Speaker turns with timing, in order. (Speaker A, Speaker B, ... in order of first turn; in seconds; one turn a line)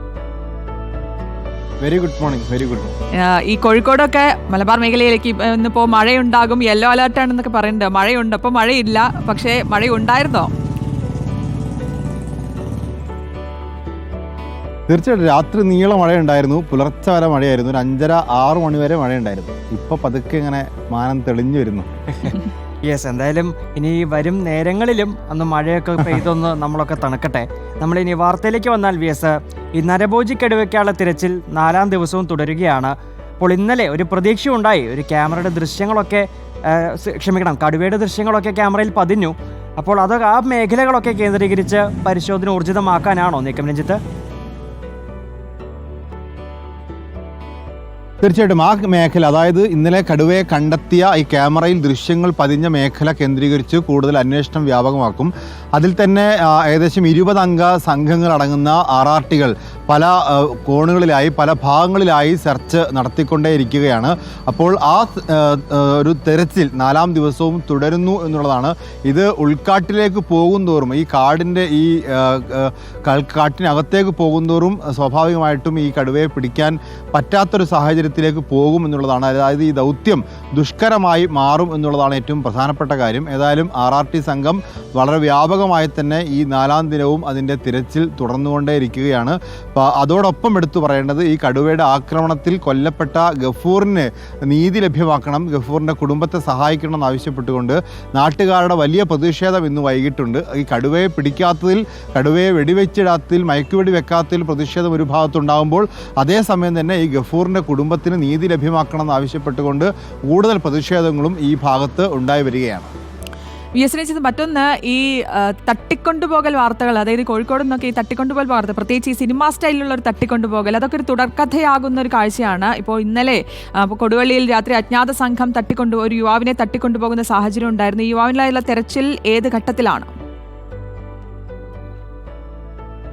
Speaker A: 1.8-2.9
Speaker B: 3.2-10.5
Speaker A: 14.9-21.9
Speaker C: 22.2-44.0
Speaker A: 48.2-112.9
Speaker B: 113.8-130.1